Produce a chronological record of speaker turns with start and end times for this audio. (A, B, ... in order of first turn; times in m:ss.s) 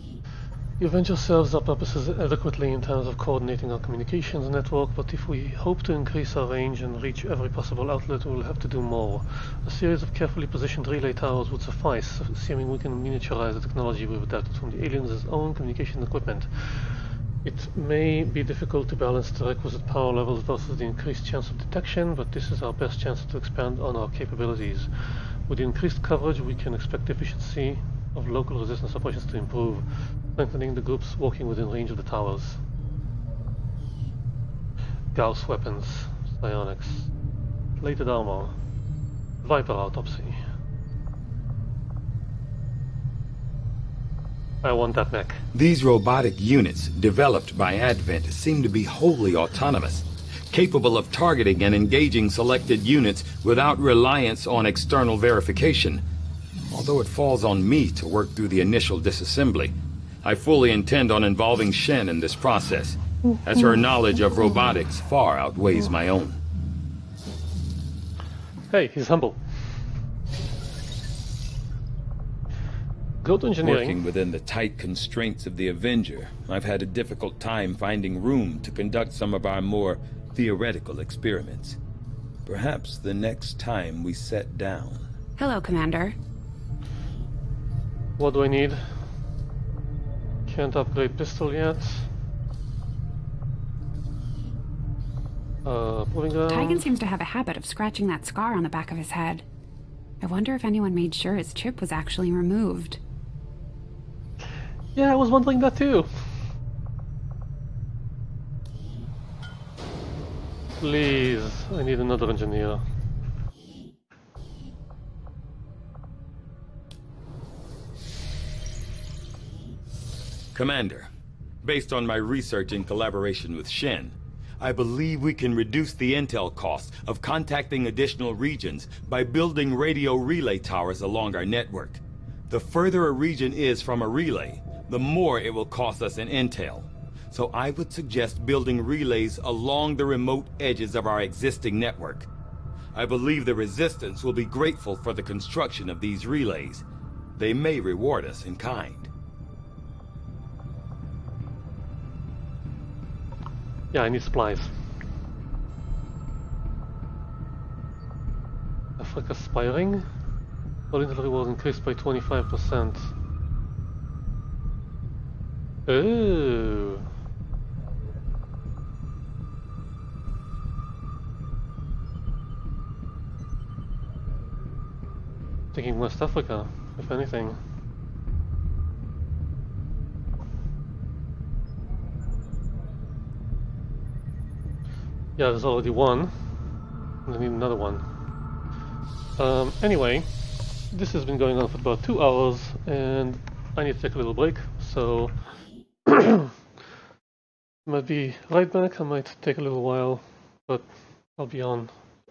0:00.8-0:16.8 A
0:17.4-0:32.6 A
0:35.1-0:37.1 A
0:37.8-0:38.6 A
0:39.4-0:40.4 A
0:44.6-0:45.4 A
0:45.5-0:56.0 B
0:56.7-0:59.7 B
1:00.2-1:06.4 B
1:08.7-1:09.4 A
1:13.2-1:14.0 A
1:13.6-1:21.8 B
1:22.4-1:25.0 B
1:25.4-1:26.2 C
1:28.2-1:28.8 A
1:30.5-1:32.1 A
1:35.6-1:36.9 A
1:36.5-1:39.4 C
1:40.2-1:43.0 C
1:45.0-1:46.1 A
1:50.8-1:52.8 A
2:00.5-2:01.1 B
2:01.6-2:22.3 B
2:23.0-2:26.8 B
2:27.4-2:29.1 B
2:33.9-2:34.7 A
2:39.0-2:40.0 A
2:40.9-2:43.1 A
2:45.9-2:47.0 A
2:55.7-2:57.6 A
3:05.4-3:06.3 A
3:07.3-3:08.0 A
3:09.4-3:10.3 A
3:10.9-3:15.3 A
3:16.1-3:16.5 A
3:17.9-3:21.9 A